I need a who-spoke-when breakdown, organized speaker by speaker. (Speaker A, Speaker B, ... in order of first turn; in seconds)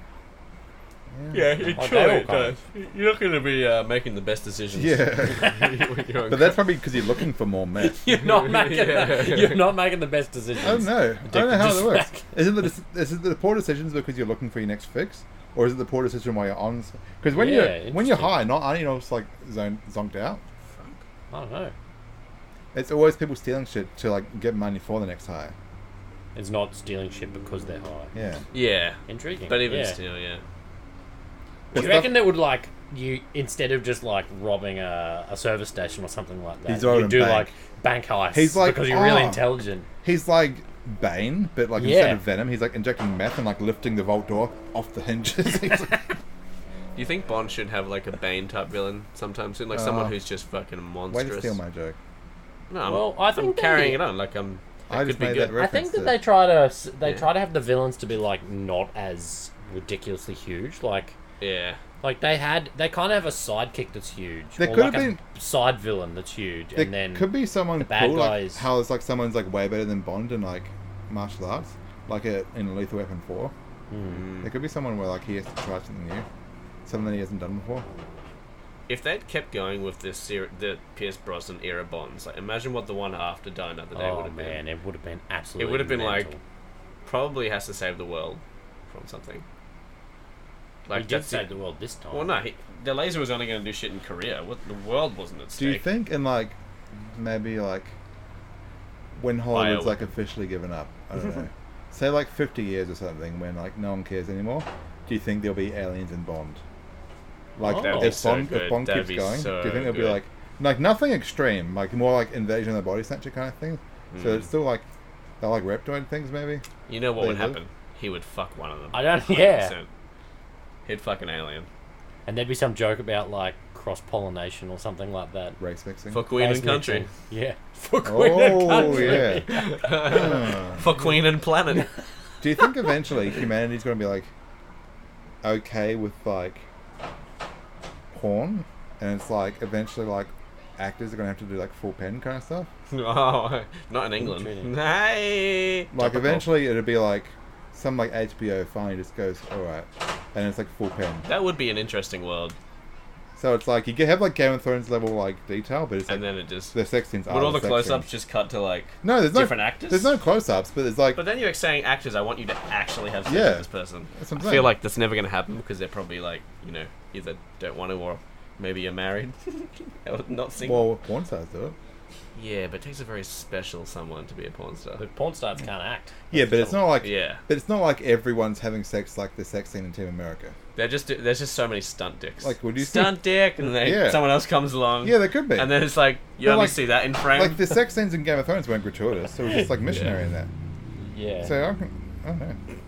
Speaker A: 1.1-1.8, 4.7-5.7, 6.3-8.0, 10.6-20.4, 22.7-25.5, 28.1-28.4, 31.7-32.3, 36.7-37.5, 38.3-39.5, 40.0-46.1, 49.7-50.1, 51.1-52.0, 54.9-56.2, 64.6-65.2, 66.8-73.5, 74.4-76.2, 76.8-77.8, 95.6-97.9, 99.1-106.6, 107.6-114.9, 115.4-116.6, 117.2-117.6, 125.6-126.2, 128.0-129.5, 130.1-130.8, 132.4-134.3, 135.4-136.7, 138.1-142.7, 145.9-151.3, 153.4-158.1, 159.0-161.2, 163.2-164.7, 170.6-171.8, 176.3-180.6, 182.4-184.3, 185.0-185.8, 186.4-190.5, 191.4-192.6
Speaker B: 1.3-6.6, 8.1-9.7, 20.7-21.0, 28.5-30.4, 46.9-51.6, 52.7-55.6, 57.0-57.3, 61.4-61.8, 74.0-74.5, 78.9-84.6, 85.6-86.3, 87.0-89.4, 90.9-91.5, 92.1-95.8, 99.5-100.0, 107.6-110.2, 114.1-114.5, 116.9-119.9, 120.8-121.7, 126.1-127.1, 128.8-131.9, 142.9-146.5, 151.2-152.6, 156.1-156.8, 157.3-160.1, 161.1-170.9, 172.3-175.0, 177.0-177.4, 180.8-187.7, 189.9-190.1
Speaker C: 1.7-2.6, 5.4-5.7, 7.8-12.3, 17.3-18.4, 21.3-21.7, 26.3-28.1, 29.1-30.0, 31.7-39.9, 41.8-42.2, 52.8-54.0, 55.5-61.1, 62.0-68.6, 73.9-74.3, 83.9-86.4, 90.9-92.3, 107.6-108.2, 118.9-119.7, 122.3-125.6, 126.3-130.4, 144.2-144.7, 175.0-176.9, 191.0-191.5